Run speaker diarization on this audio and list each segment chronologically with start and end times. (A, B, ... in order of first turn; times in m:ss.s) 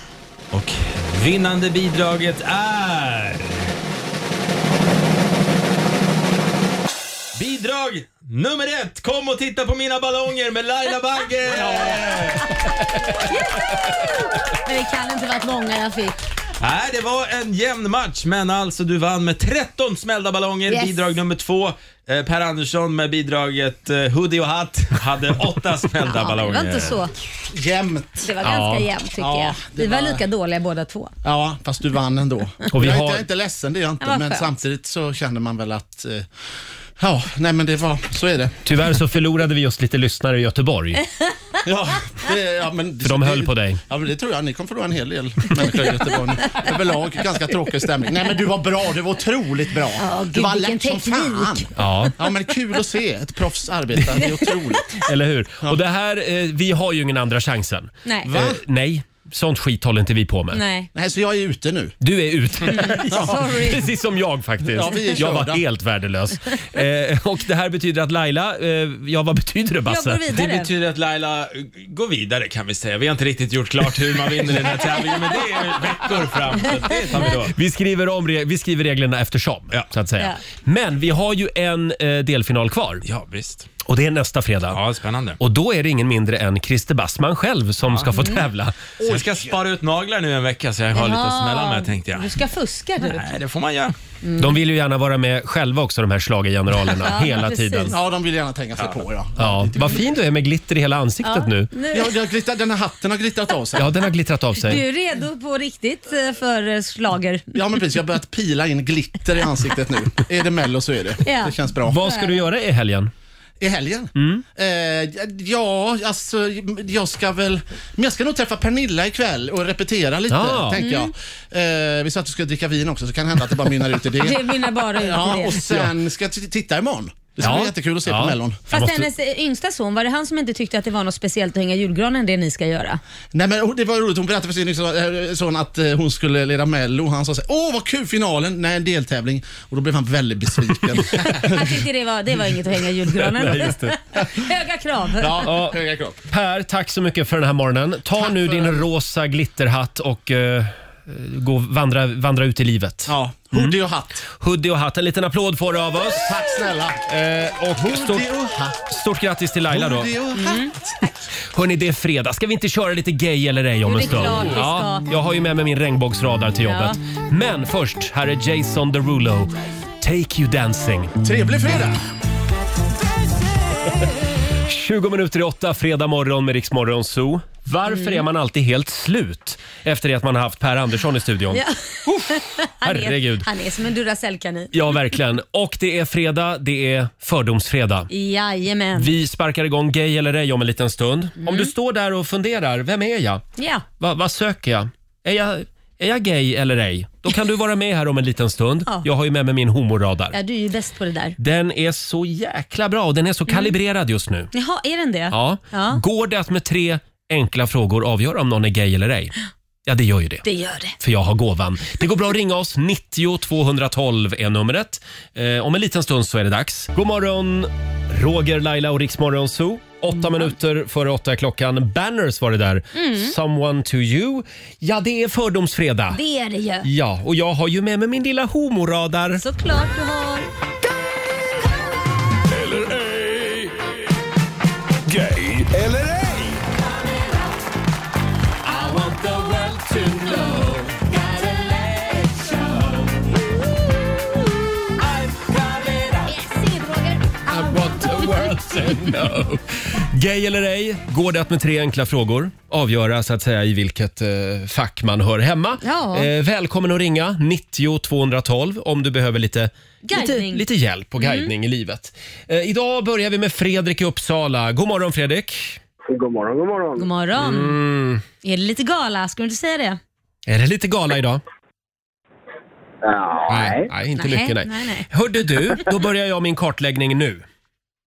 0:00.5-0:03.7 A
0:07.4-0:12.5 A
0:13.2-0:16.2 B
0:16.6-0:27.0 A
0:20.7-0:21.1 B
0:26.1-0:27.1 B
0:27.5-0:28.3 C
0:28.2-0:31.1 B
0:28.4-0:28.9 D
0:29.2-0:30.2 C
0:31.2-0:36.3 C
0:32.7-0:33.2 D
0:34.0-0:34.5 B
0:37.0-0:38.6 C
0:38.6-0:41.0 D
0:41.6-0:55.0 C
0:43.0-0:43.8 D
0:50.0-0:51.7 B
0:51.8-0:52.2 D
0:54.2-0:54.8 B
0:55.0-1:00.6 D
0:58.3-0:58.6 C
1:00.5-1:00.9 B
1:00.9-1:02.0 C
1:02.0-1:10.2 D
1:02.7-1:03.8 B
1:03.1-1:03.4 C
1:04.7-1:05.6 C
1:09.9-1:10.7 B
1:10.3-1:17.5 A
1:14.5-1:14.8 D
1:17.3-1:23.0 D
1:23.0-1:23.7 A
1:23.8-1:24.8 D
1:24.7-1:25.4 A
1:25.4-1:28.9 D
1:28.1-1:28.4 B
1:29.0-1:29.5 C
1:29.0-1:32.4 A
1:30.9-1:33.4 B
1:33.0-1:34.0 A
1:34.2-1:34.6 B
1:34.4-1:38.0 D
1:36.9-1:37.9 B
1:37.9-1:40.1 C
1:39.4-1:41.7 D
1:41.2-1:42.2 B
1:41.9-1:44.0 C
1:43.8-1:44.8 D
1:44.6-1:47.6 B
1:47.5-1:52.0 C
1:51.2-1:52.4 B
1:51.9-1:53.1 D
1:53.6-2:08.6 C
1:54.2-1:54.4 D
2:00.3-2:00.8 D
2:00.8-2:01.1 B
2:04.2-2:05.6 B
2:05.6-2:05.9 D
2:07.4-2:09.1 D
2:08.7-2:13.0 B
2:13.3-2:21.7 C
2:21.4-2:25.5 B
2:23.1-2:24.3 D
2:25.2-2:26.2 C
2:25.4-2:36.4 D
2:28.2-2:28.8 C
2:33.1-2:34.2 C
2:36.2-2:37.0 C
2:37.1-2:40.1 D
2:37.8-2:38.8 C
2:39.7-2:41.0 C
2:40.3-2:41.1 B
2:41.4-2:51.2 D
2:43.8-2:45.0 B
2:46.6-2:47.0 B
2:51.2-2:52.0 C
2:54.6-3:03.5 D
2:57.9-2:58.2 B
3:01.5-3:05.0 B
3:04.7-3:08.1 D
3:08.1-3:09.1 B
3:09.0-3:13.4 D
3:11.4-3:11.7 B
3:13.6-3:13.8 B
3:14.0-3:20.4 D
3:20.3-3:21.4 B
3:21.4-3:24.5 D
3:23.5-3:23.7 B
3:24.5-3:26.0 B
3:25.3-3:29.3 D
3:29.9-3:30.4 D
3:30.4-3:31.0 B
3:31.0-3:46.2 D
3:40.2-3:40.5 B
3:43.0-3:43.3 B
3:46.1-3:46.9 B
3:46.8-3:49.4 D
3:49.4-3:50.5 B
3:52.5-3:53.8 E
3:55.1-3:56.6 E
3:58.7-4:02.4 D
4:05.3-4:06.2 D
4:06.3-4:07.4 B
4:07.5-4:25.8 D
4:15.8-4:16.3 B
4:20.1-4:20.6 B
4:21.2-4:21.5 B
4:26.1-4:27.1 F
4:27.0-4:27.8 B
4:27.4-4:28.2 D
4:28.4-4:30.0 B
4:30.5-4:31.4 D
4:33.0-4:33.9 F
4:33.5-4:37.4 D
4:34.2-4:35.1 B